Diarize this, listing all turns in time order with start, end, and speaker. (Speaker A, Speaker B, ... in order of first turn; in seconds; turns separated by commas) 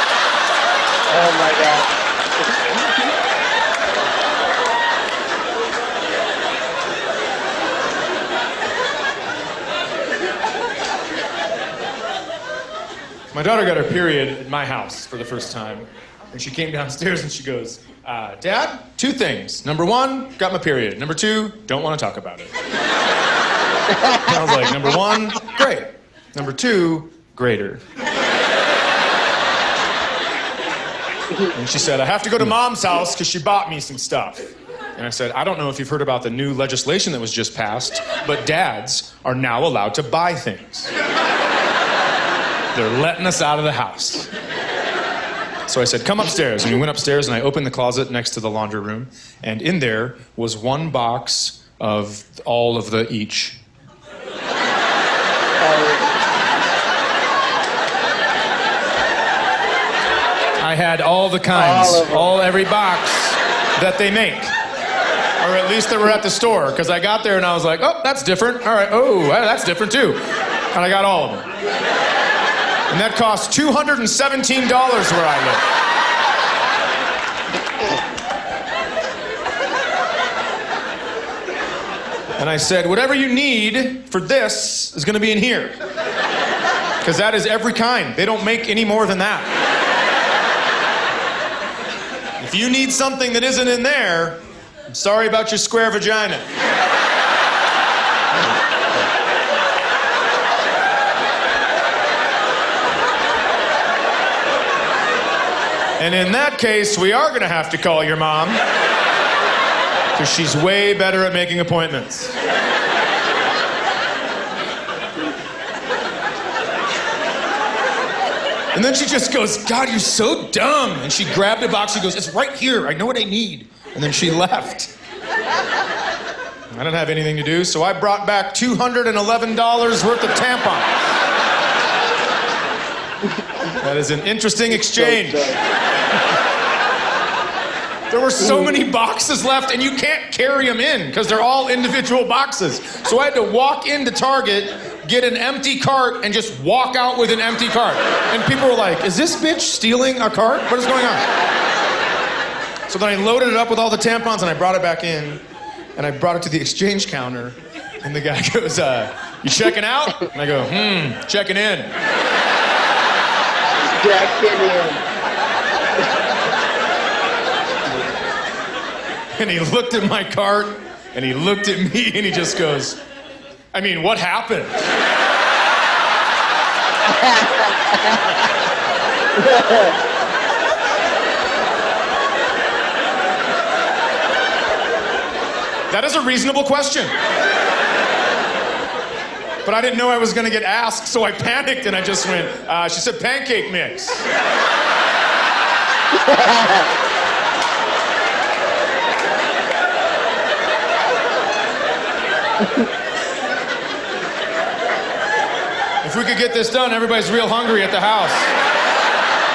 Speaker A: 1.1-1.9, Speaker B: 13.3-22.5, Speaker A: 23.9-24.3, Speaker B: 24.0-27.8, Speaker B: 31.5-40.9, Speaker B: 42.7-44.3, Speaker B: 45.7-53.6, Speaker A: 55.6-56.1, Speaker B: 60.6-64.5, Speaker A: 61.5-62.3, Speaker B: 65.4-71.5, Speaker B: 72.9-75.6, Speaker B: 82.4-85.8, Speaker B: 87.0-89.5, Speaker B: 92.4-96.5, Speaker B: 106.0-108.6, Speaker B: 110.2-112.3, Speaker B: 118.7-124.9, Speaker B: 126.7-131.0, Speaker B: 133.8-135.5, Speaker A: 134.7-135.6, Speaker B: 138.1-151.3, Speaker A: 138.4-138.7, Speaker B: 152.9-155.4, Speaker B: 155.9-161.9, Speaker A: 163.8-165.0, Speaker B: 169.3-173.0, Speaker B: 173.7-174.8, Speaker A: 177.1-178.4, Speaker A: 179.3-180.0, Speaker B: 185.9-187.1, Speaker B: 189.6-194.2, Speaker A: 196.2-196.9, Speaker B: 206.0-208.5